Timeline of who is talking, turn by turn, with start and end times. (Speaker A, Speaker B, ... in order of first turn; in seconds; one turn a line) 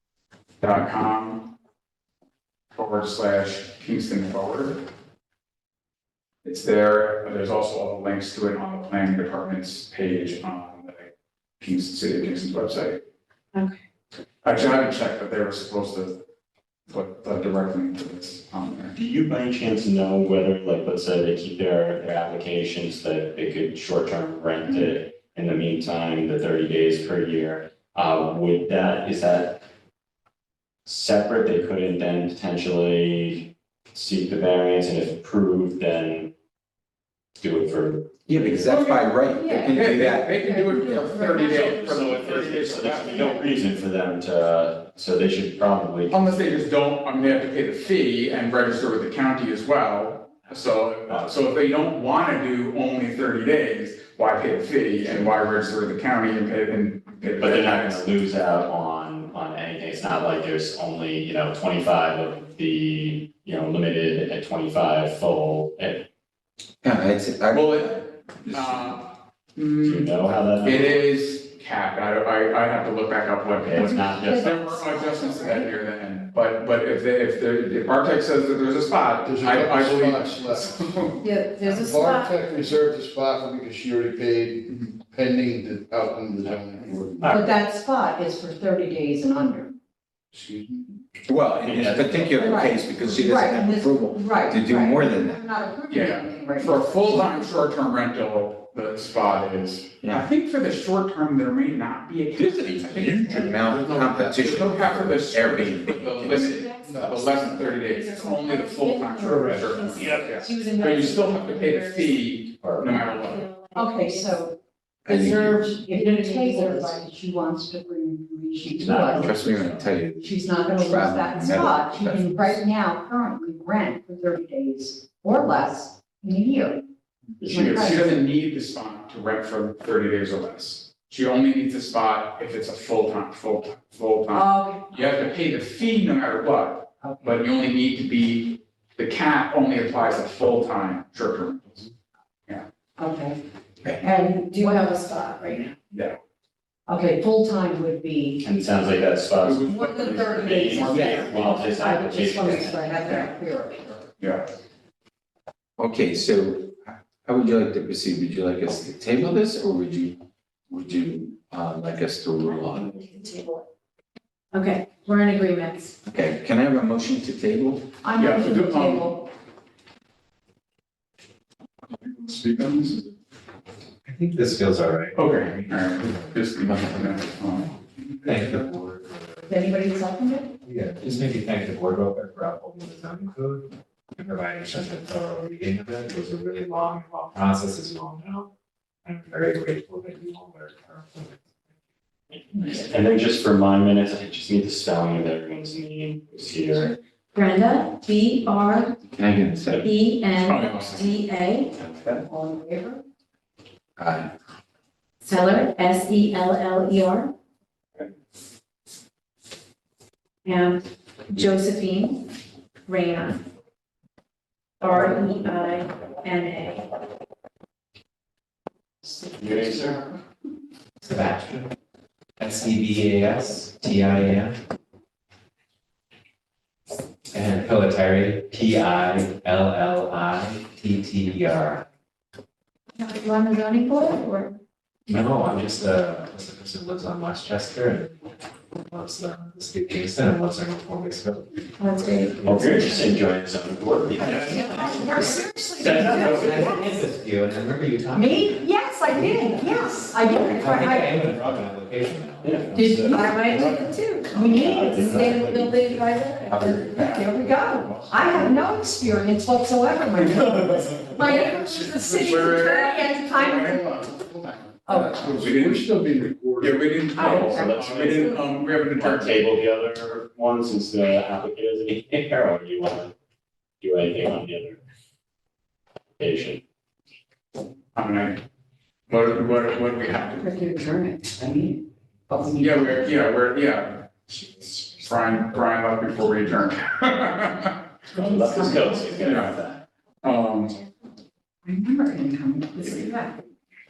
Speaker A: 0.6-1.5
Speaker A: 2.7-4.8
Speaker A: 6.4-13.0
Speaker B: 13.5-13.8
Speaker A: 14.4-16.2
Speaker A: 16.9-18.9
Speaker C: 19.0-29.6
Speaker C: 30.9-36.3
Speaker C: 37.4-38.8
Speaker D: 38.3-41.0
Speaker A: 38.6-43.4
Speaker E: 39.3-42.1
Speaker C: 41.2-46.6
Speaker E: 43.1-43.4
Speaker A: 46.1-58.0
Speaker C: 51.1-51.4
Speaker C: 55.0-55.3
Speaker C: 57.3-66.1
Speaker D: 66.8-67.8
Speaker A: 67.5-81.2
Speaker D: 68.4-69.0
Speaker C: 69.8-71.0
Speaker C: 73.6-74.5
Speaker E: 73.9-75.7
Speaker F: 79.2-87.4
Speaker E: 81.2-82.2
Speaker B: 81.3-82.3
Speaker A: 84.7-85.0
Speaker C: 87.2-87.5
Speaker E: 87.3-89.7
Speaker F: 90.3-91.0
Speaker D: 91.2-95.3
Speaker C: 91.6-93.0
Speaker E: 92.3-97.7
Speaker A: 95.9-113.4
Speaker D: 102.3-106.6
Speaker F: 103.3-105.0
Speaker B: 106.2-112.2
Speaker F: 106.8-107.5
Speaker G: 109.2-109.8
Speaker E: 110.3-111.3
Speaker B: 112.9-114.4
Speaker E: 113.7-119.3
Speaker D: 115.0-115.7
Speaker B: 115.7-117.1
Speaker C: 118.8-119.9
Speaker D: 119.1-122.6
Speaker E: 120.2-126.8
Speaker C: 127.4-128.1
Speaker E: 127.4-128.2
Speaker A: 127.5-141.9
Speaker E: 134.3-134.9
Speaker E: 137.0-137.3
Speaker E: 143.0-143.4
Speaker E: 143.9-145.0
Speaker B: 144.1-145.7
Speaker A: 145.9-146.2
Speaker E: 146.9-148.4
Speaker C: 148.4-153.3
Speaker A: 149.4-151.7
Speaker E: 149.7-154.0
Speaker A: 154.2-154.4
Speaker D: 155.8-160.2
Speaker D: 160.7-163.1
Speaker B: 162.5-163.6
Speaker B: 164.5-166.0
Speaker D: 166.0-167.8
Speaker E: 168.0-169.3
Speaker A: 168.2-169.2
Speaker A: 172.0-173.1
Speaker G: 174.0-179.6
Speaker A: 175.1-178.2
Speaker E: 179.5-180.5
Speaker G: 180.6-188.5
Speaker G: 189.0-191.4
Speaker C: 192.5-196.9
Speaker B: 197.3-198.9
Speaker D: 199.1-199.8
Speaker B: 199.7-201.7
Speaker A: 200.4-201.1
Speaker C: 201.8-202.2
Speaker E: 202.2-203.0
Speaker D: 204.0-204.3
Speaker B: 205.2-207.3
Speaker B: 210.4-212.3
Speaker B: 212.8-213.4
Speaker B: 214.8-216.9
Speaker E: 219.0-220.2
Speaker C: 219.4-220.0
Speaker G: 221.0-221.7
Speaker G: 222.4-224.6
Speaker G: 227.3-231.8
Speaker B: 233.0-234.6
Speaker G: 235.1-241.6
Speaker B: 241.8-242.5
Speaker C: 242.4-245.1
Speaker G: 242.4-243.2
Speaker E: 244.3-247.0
Speaker C: 245.7-246.9
Speaker G: 245.9-248.6
Speaker E: 248.1-251.2
Speaker G: 249.2-253.2
Speaker C: 252.4-252.8
Speaker E: 252.7-255.4
Speaker B: 252.9-257.2
Speaker C: 254.5-255.7
Speaker E: 256.8-264.0
Speaker F: 261.1-262.5
Speaker A: 262.2-263.8
Speaker F: 263.4-266.9
Speaker E: 264.9-265.2
Speaker A: 265.3-266.1
Speaker A: 266.6-269.4
Speaker E: 267.1-268.4
Speaker C: 267.2-273.1
Speaker C: 273.8-274.8
Speaker C: 276.2-276.6
Speaker A: 277.9-278.4
Speaker A: 279.1-280.5
Speaker E: 280.3-283.1
Speaker A: 282.6-287.8
Speaker E: 288.1-289.3
Speaker C: 288.1-289.8
Speaker A: 288.6-289.6
Speaker A: 290.2-290.8
Speaker E: 291.6-293.4